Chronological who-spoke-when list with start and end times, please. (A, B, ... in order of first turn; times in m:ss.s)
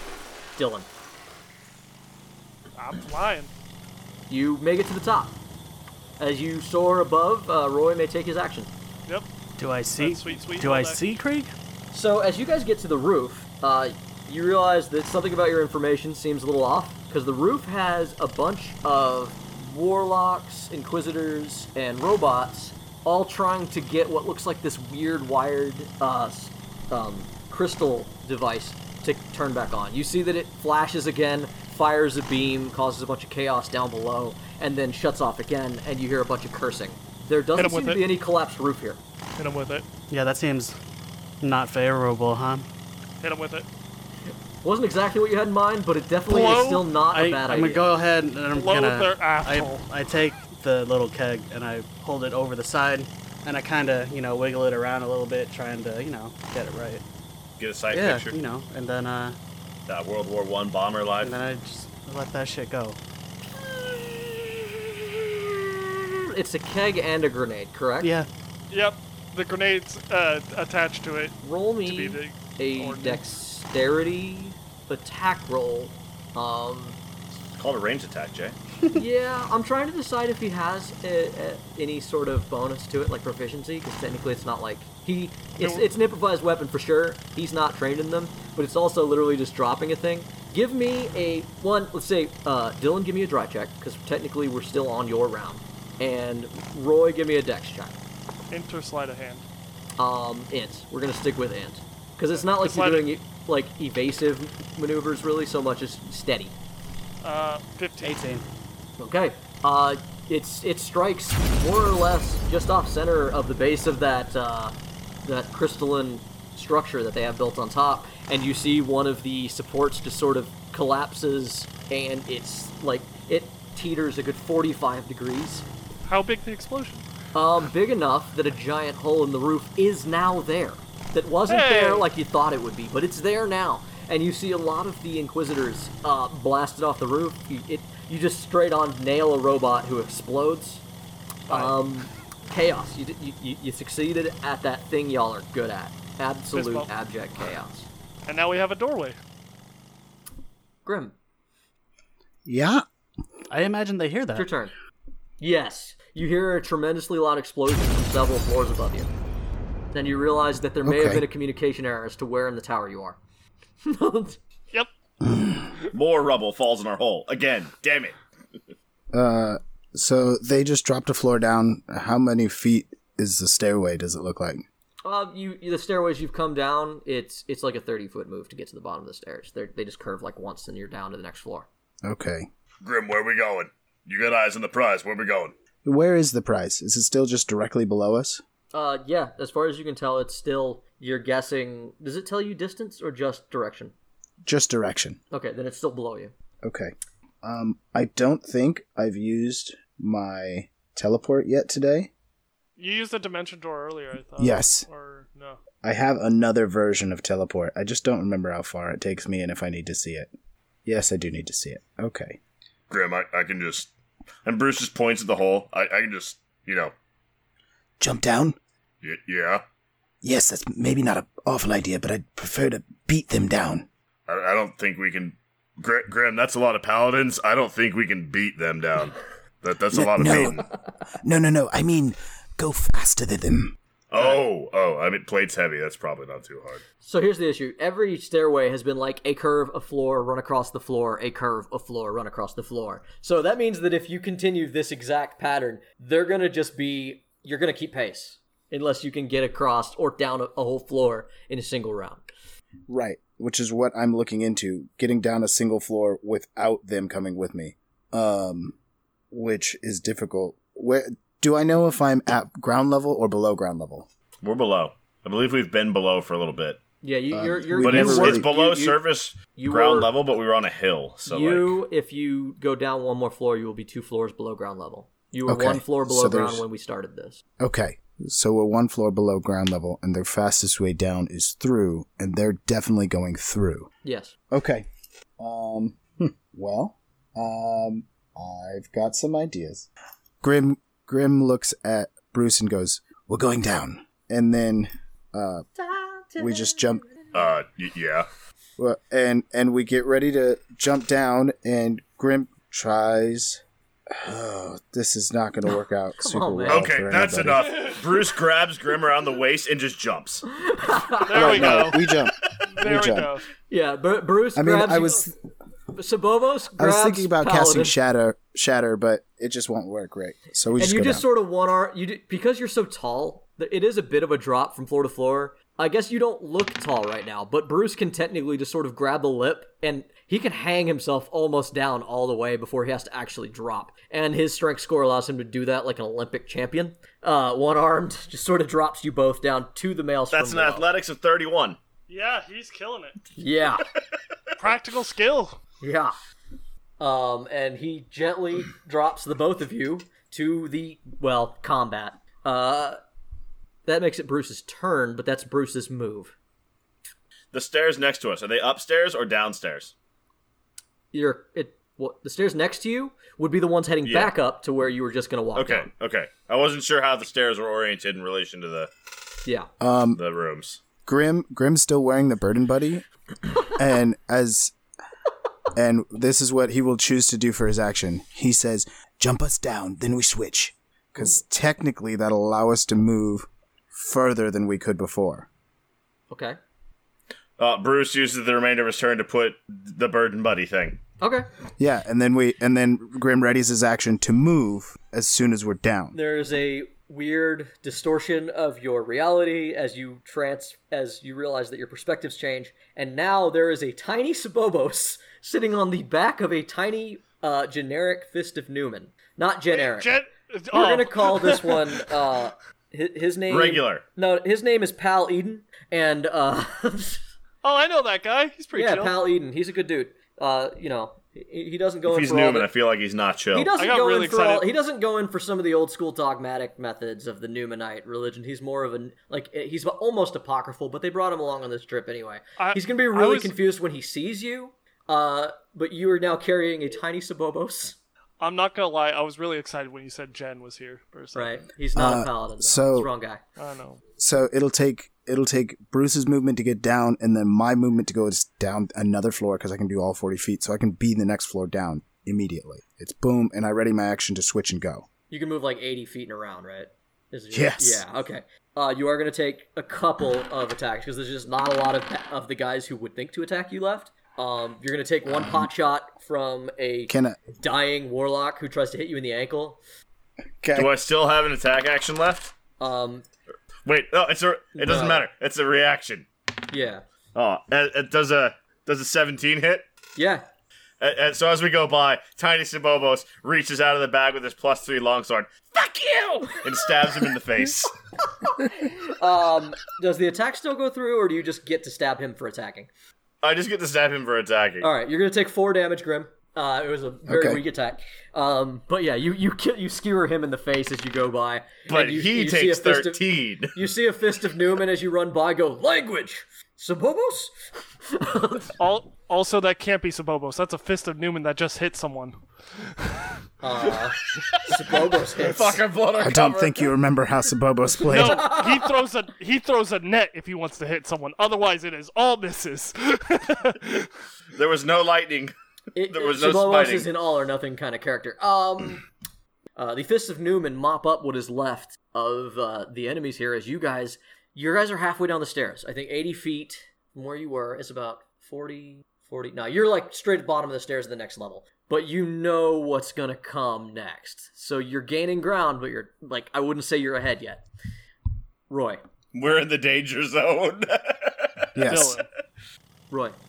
0:00.6-0:00.9 A
0:02.8-0:03.5 B
0:04.3-0:05.4 A
0:06.2-0:08.7 A
0:09.6-0:11.5 C
0:10.0-0:11.0 B
0:11.9-0:39.0 A
0:37.6-0:38.0 B
0:39.4-0:39.9 B
0:40.1-0:40.8 C
0:41.4-0:42.7 C
0:43.2-0:43.7 B
0:44.6-0:47.9 A
0:46.3-0:46.9 B
0:47.1-0:57.0 C
0:48.5-0:49.9 B
0:57.6-0:58.4 D
0:57.9-0:59.4 C
0:59.9-1:01.4 D
1:01.2-1:03.0 C
1:03.5-1:08.1 A
1:08.0-1:08.3 C
1:08.7-1:13.3 B
1:11.4-1:17.0 A
1:17.5-1:18.6 D
1:18.9-1:38.0 A
1:25.6-1:25.9 B
1:38.5-1:39.5 B
1:40.0-1:46.6 A
1:42.3-1:43.1 B
1:47.2-1:48.2 B
1:48.0-1:48.4 C
1:49.0-2:05.7 A
2:06.0-2:07.1 B
2:07.3-2:20.8 A
2:11.5-2:12.1 B
2:21.5-2:21.8 B
2:21.5-2:27.9 A
2:26.5-2:26.9 B
2:28.3-2:29.2 B
2:30.8-2:31.2 A
2:32.5-2:32.8 E
2:33.5-2:34.5 C
2:34.3-2:34.7 A
2:35.4-2:39.1 A
2:39.9-2:43.2 A
2:40.8-2:41.2 E
2:43.8-2:44.4 A
2:45.2-2:45.7 E
2:45.9-2:48.2 D
2:49.1-2:54.6 E
2:55.0-3:01.7 A
3:02.0-3:02.5 E
3:02.8-3:05.5 D
3:05.8-3:08.4 E
3:08.7-3:13.9 A
3:14.4-3:15.2 E
3:15.3-3:16.3 A
3:16.6-3:22.1 E
3:22.8-3:25.6 B
3:24.4-3:24.9 E
3:25.8-3:30.3 E
3:30.8-3:32.4 E
3:32.9-3:33.9 D
3:34.4-3:36.9 D
3:38.0-3:38.6 E
3:39.0-3:39.6 D
3:40.2-3:43.9 E
3:44.3-3:50.7 D
3:49.9-3:50.6 E
3:51.2-3:53.8 E
3:54.1-3:56.8 D
3:57.0-4:12.3 A
4:12.9-4:18.8 E
4:19.3-4:24.1 E
4:24.4-4:26.8 D
4:27.0-4:29.0 A
4:27.3-4:28.5 E
4:27.8-4:31.8 D
4:29.5-4:30.1 A
4:31.3-4:37.4 A
4:35.5-4:36.6 E
4:37.6-4:43.9 E
4:44.0-4:44.4 A
4:44.5-4:44.9 E
4:45.4-4:49.9 E
4:50.4-4:55.7 E
4:55.8-4:57.4 A
4:56.4-4:57.0 E
4:57.3-4:58.3 D
4:58.8-5:07.8 E
5:06.2-5:06.9 A
5:06.7-5:10.4 D
5:07.9-5:08.2 B
5:10.5-5:12.0 A
5:11.2-5:12.1 B
5:11.3-5:13.3 E
5:12.8-5:13.4 B
5:13.7-5:15.2 A
5:14.6-5:15.3 E
5:15.9-5:18.0 A
5:16.8-5:21.2 E
5:20.8-5:40.9 A
5:40.3-5:41.8 D
5:42.1-5:43.2 B
5:43.4-5:43.8 A
5:44.6-5:45.6 B
5:45.8-5:46.2 A
5:47.0-5:53.0 A
5:53.9-5:56.3 A
5:57.5-5:59.9 D
6:01.1-6:05.9 A
6:04.0-6:04.3 D
6:05.6-6:08.9 D
6:09.8-6:10.2 E
6:10.1-6:10.8 D
6:11.0-6:13.0 E
6:13.6-6:14.8 E
6:15.7-6:25.5 E
6:26.3-6:26.6 A
6:27.6-6:31.0 D
6:31.2-6:31.5 A
6:31.8-6:36.2 E
6:36.1-6:50.2 A
6:49.7-6:52.1 B
6:50.7-6:57.2 A
6:53.5-6:54.0 D
6:57.6-6:59.2 B
6:58.8-7:02.7 A
7:02.1-7:03.7 D
7:03.5-7:18.0 A
7:03.8-7:04.7 B
7:12.6-7:13.5 B
7:18.4-7:21.6 B
7:21.3-7:23.4 A
7:22.0-7:23.1 E
7:23.6-7:24.0 B
7:24.2-7:35.1 E
7:35.3-7:49.8 A
7:37.5-7:38.0 E
7:47.1-7:47.4 E
7:50.6-7:51.0 E
7:50.7-7:52.5 D
7:52.8-7:53.2 A
7:53.8-7:56.3 D
7:54.8-7:55.3 A
7:56.7-7:57.0 A
7:57.4-7:59.9 D
8:00.2-8:00.5 A
8:01.0-8:05.5 D
8:05.7-8:07.2 A
8:06.6-8:07.9 D
8:08.4-8:12.9 A
8:13.4-8:14.9 D
8:14.8-8:28.8 A
8:17.3-8:17.6 E
8:21.9-8:23.7 D
8:28.8-8:32.4 B
8:33.0-8:33.3 B
8:33.6-8:35.8 A
8:35.3-8:36.8 D
8:36.2-8:38.6 E
8:38.0-8:38.9 A
8:38.1-8:44.1 B
8:44.6-8:45.5 D
8:45.9-8:49.0 A
8:46.0-8:47.1 D
8:49.8-9:07.7 A
9:08.7-9:09.0 A
9:09.3-9:11.7 D
9:11.8-9:12.2 E
9:11.9-9:12.3 B
9:13.1-9:13.4 A